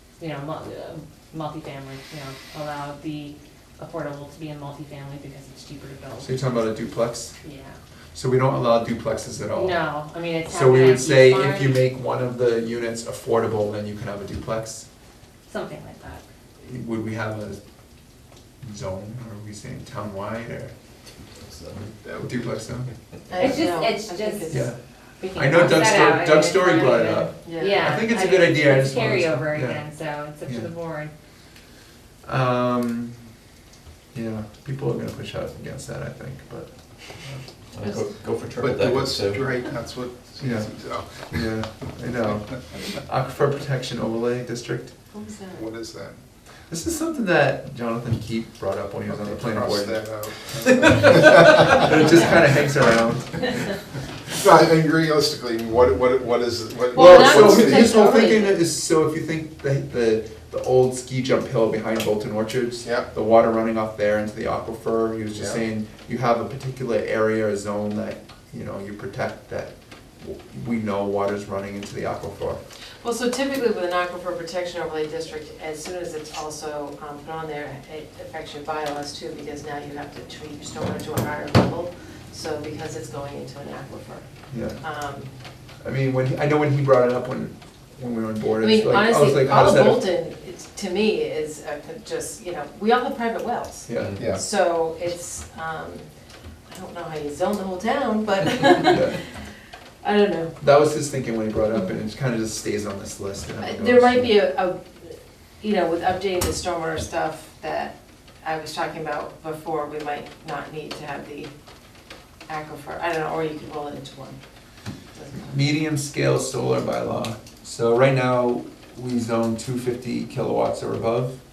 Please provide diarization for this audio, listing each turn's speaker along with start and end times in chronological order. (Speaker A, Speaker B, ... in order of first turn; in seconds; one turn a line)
Speaker A: 0.2-6.8
Speaker B: 6.2-7.3
Speaker A: 7.4-7.8
Speaker B: 8.1-9.8
Speaker A: 9.5-11.8
Speaker B: 10.4-14.9
Speaker A: 15.5-16.2
Speaker B: 16.6-17.6
Speaker B: 18.6-20.7
Speaker C: 21.3-21.7
Speaker D: 22.0-22.4
Speaker B: 22.2-22.9
Speaker E: 23.3-25.9
Speaker A: 23.4-24.6
Speaker B: 24.5-24.8
Speaker B: 25.3-29.8
Speaker A: 25.4-31.1
Speaker E: 27.4-28.1
Speaker B: 30.4-30.7
Speaker B: 32.2-33.2
Speaker B: 34.1-37.5
Speaker C: 37.7-39.4
Speaker D: 38.6-41.4
Speaker B: 40.4-40.7
Speaker B: 41.2-45.0
Speaker E: 45.1-45.6
Speaker D: 45.5-46.2
Speaker B: 46.7-53.6
Speaker D: 49.1-51.4
Speaker D: 54.3-58.0
Speaker E: 56.9-58.6
Speaker B: 56.9-72.6
Speaker D: 65.3-65.6
Speaker E: 73.0-84.3
Speaker B: 84.5-84.8
Speaker E: 84.8-85.3
Speaker B: 85.8-90.0
Speaker E: 88.6-96.1
Speaker B: 93.9-94.2
Speaker D: 94.2-94.4
Speaker E: 96.7-99.3
Speaker B: 98.8-99.2
Speaker E: 100.0-100.5
Speaker B: 100.6-104.3
Speaker E: 103.6-111.5
Speaker E: 112.5-114.4
Speaker E: 115.2-115.7
Speaker B: 115.4-121.4